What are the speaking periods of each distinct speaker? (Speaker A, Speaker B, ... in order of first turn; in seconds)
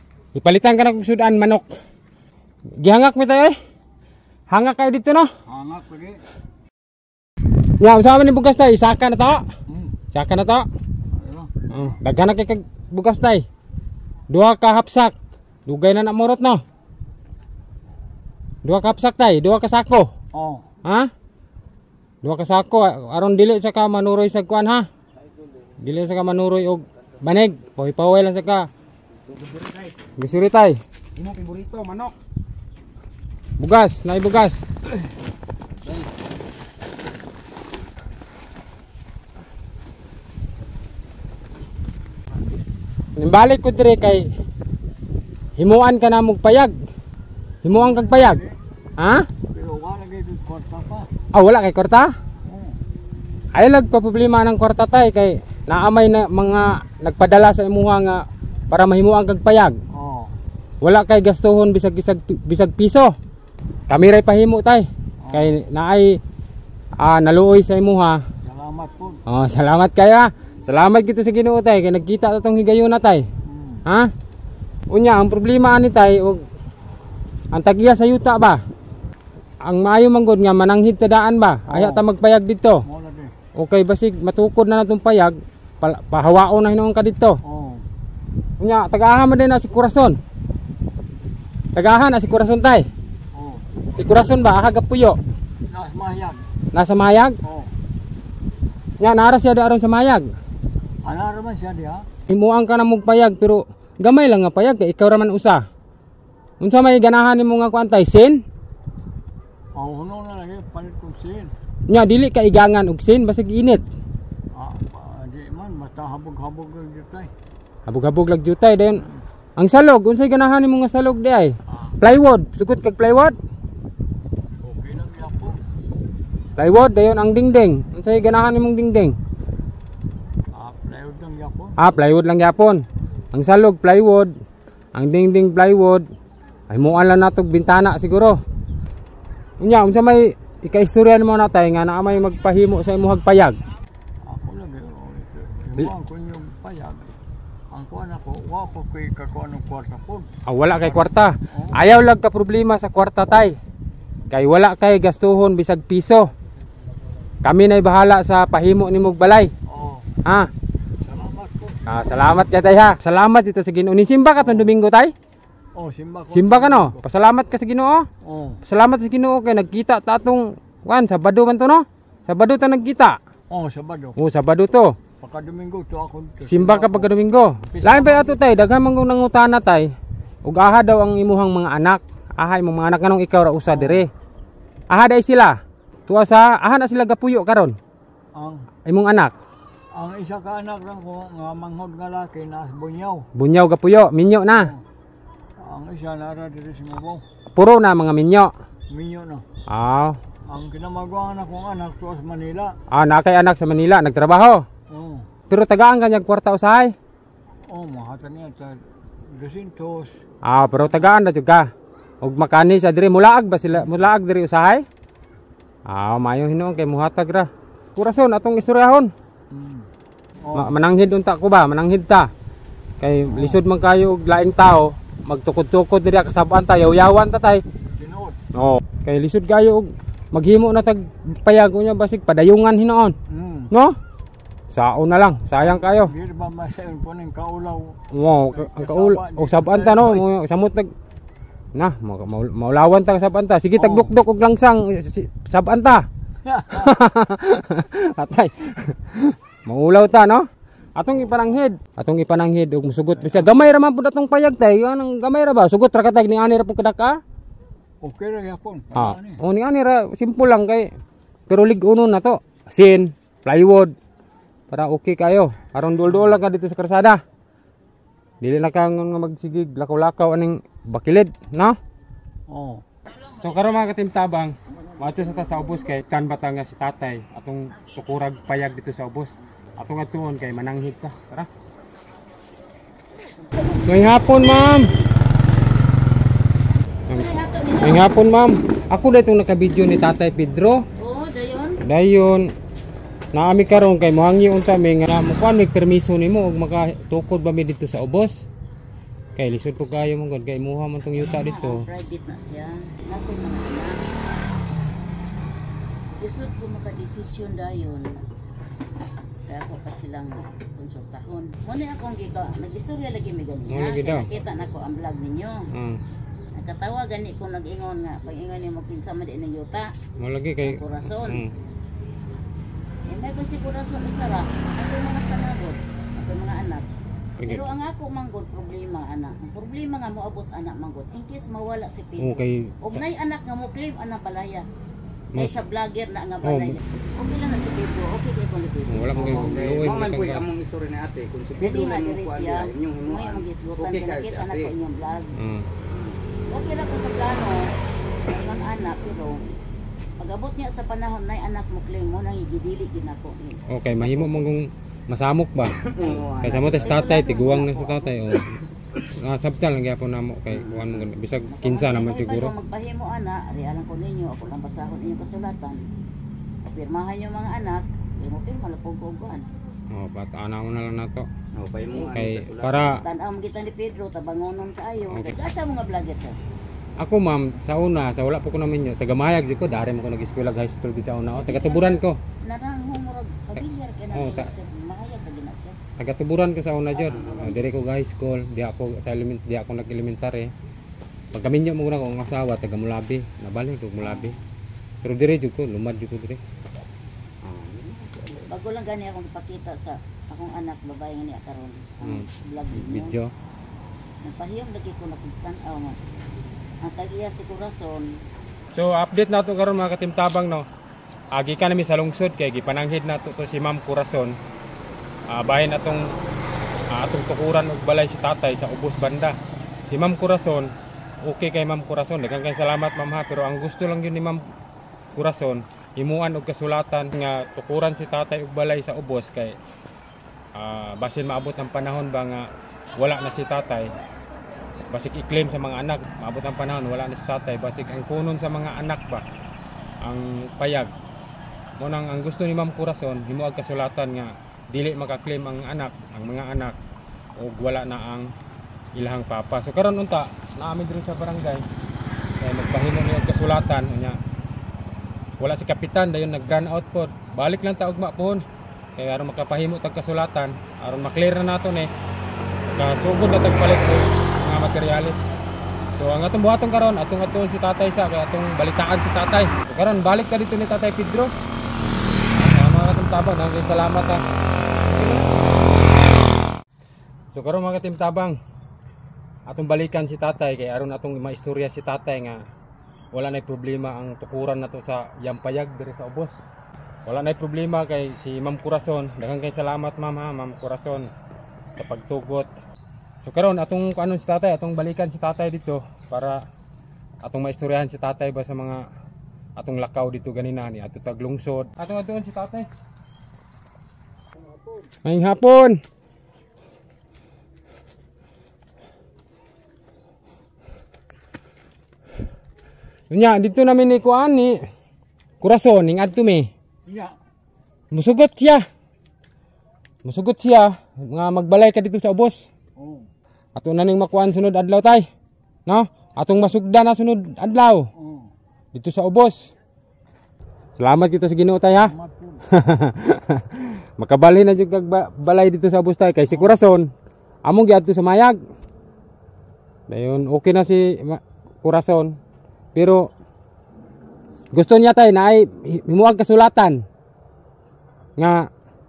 Speaker A: 0.3-1.7, 2.8-3.6, 4.5-5.3, 7.8-9.4, 10.1-10.6, 11.7-13.4, 14.3-15.1, 15.7-16.6, 18.6-20.1, 20.8-21.1, 22.2-24.9, 25.8-28.7, 30.2-30.8, 33.6-34.7, 43.2-44.3, 45.6-46.7, 47.6-48.4, 49.0-49.3, 51.3-52.1, 53.5-59.8, 60.8-63.1, 63.9-66.2, 67.0-68.2, 69.2-73.2, 73.8-74.1, 74.9-76.4, 77.5-78.6, 79.6-82.8, 83.5-87.4, 88.6-90.2, 91.7-92.9, 93.9-95.2, 96.7-97.3, 99.0-100.3, 102.3-105.6, 106.6-108.4, 111.9-113.8, 117.9-119.0, 119.6-123.3, 126.6-129.2, 131.8-132.8, 133.3-134.3, 134.9-136.0, 136.7-138.4, 139.6-143.6, 150.4-153.6, 154.3-156.3, 157.4-159.5, 160.2-160.5, 161.9-165.1, 166.3-168.1, 168.6-173.2, 174.2-174.9, 176.4-179.9, 180.4-184.1, 184.9-187.8, 188.8-189.3, 193.3-194.7, 197.5-198.5, 199.7-200.2, 202.9-204.6, 205.5-206.9, 210.4-211.7, 212.2-214.8, 215.9-219.1, 220.5-222.3, 223.0-227.6, 228.5-233.2, 233.7-234.0, 234.7-236.1, 238.1-240.9, 241.7-246.0, 246.7-257.2, 258.9-260.9, 261.5-263.9, 264.7-267.2, 268.4-271.8, 273.4-281.5, 283.8-284.9, 287.8-290.8, 291.8-292.5, 293.3-298.4, 299.4-301.8, 313.7-314.3, 315.7-316.0, 320.2-321.5, 327.4-327.7, 332.2-333.0, 335.3-335.6, 336.4-336.8, 338.9-340.5, 345.4-345.7, 353.7-358.5, 359.0-362.5, 369.9-371.3, 372.1-373.0, 375.1-375.4, 377.0-382.2, 384.1-384.5, 386.0-390.5, 391.3-394.4, 395.0-396.4, 402.0-403.3, 408.7-410.6, 411.3-414.3, 415.3-416.0, 416.9-419.4, 419.9-420.7, 421.2-424.4, 425.1-429.6, 430.6-433.9, 434.9-439.2, 440.0-440.9, 441.8-446.8, 447.4-448.3, 448.9-451.6, 452.4-454.2, 455.4-458.4, 458.9-461.9, 462.7-465.2, 465.9-471.3, 472.3-474.2, 474.9-475.3, 477.3-478.4, 479.5-482.4, 483.1-486.4, 487.1-491.1, 491.8-492.5, 493.2-496.4, 497.2-498.8, 499.6-502.7, 505.0-505.8, 513.1-514.6, 515.4-516.5, 517.9-518.6, 520.0-522.5, 523.5-525.0, 525.7-527.9, 528.7-529.5, 530.8-531.9, 532.5-536.9, 537.4-538.3, 539.9-542.1, 542.7-543.1, 544.5-546.8, 548.2-548.4
Speaker B: 5.5-6.2, 9.7-10.0, 11.1-12.0, 20.3-20.6, 47.7-48.5, 49.5-51.1, 52.5-52.8, 59.9-60.3, 65.2-65.6, 68.4-69.2, 73.5-73.8, 81.7-82.1, 82.9-83.3, 87.4-87.8, 93.3-93.7, 95.7-96.4, 97.4-97.7, 101.0-102.0, 109.7-111.5, 114.5-117.3, 119.0-119.2, 121.7-122.0, 124.6-125.6, 130.5-131.8, 144.2-147.1, 147.7-151.8, 159.7-160.1, 161.0-161.8, 164.4-164.7, 165.7-167.0, 168.2-168.6, 173.5-174.2, 175.2-177.1, 177.7-178.4, 183.7-184.0, 188.3-188.7, 189.9-193.2, 194.5-194.8, 195.6-197.2, 198.9-199.4, 200.5-202.7, 204.9-205.3, 207.7-210.1, 219.5-219.9, 220.4-220.7, 223.2-223.6, 227.9-228.4, 233.3-233.7, 235.5-238.0, 238.5-240.3, 243.8-244.1, 246.4-247.0, 253.2-253.8, 258.0-259.4, 266.1-266.4, 272.5-272.8, 516.9-517.1, 522.8-523.1, 528.0-528.3, 531.8-532.4, 536.3-536.6
Speaker C: 29.5-29.7, 31.2-32.1, 339.1-344.7, 345.9-346.2, 355.9-356.9, 360.5-361.1, 371.5-373.0, 397.4-398.5
Speaker D: 287.1-288.1, 291.0-291.8, 301.2-303.9, 306.2-308.1, 309.5-315.6, 316.6-319.9, 320.6-321.4, 323.1-326.8, 327.4-334.6, 335.3-339.6, 341.6-345.4, 346.5-347.6, 348.3-349.4, 350.2-353.6, 356.8-358.4, 361.5-365.8, 366.6-369.5, 372.8-376.3, 381.3-385.8, 386.9-387.6, 398.5-403.2, 404.2-406.0, 406.8-408.1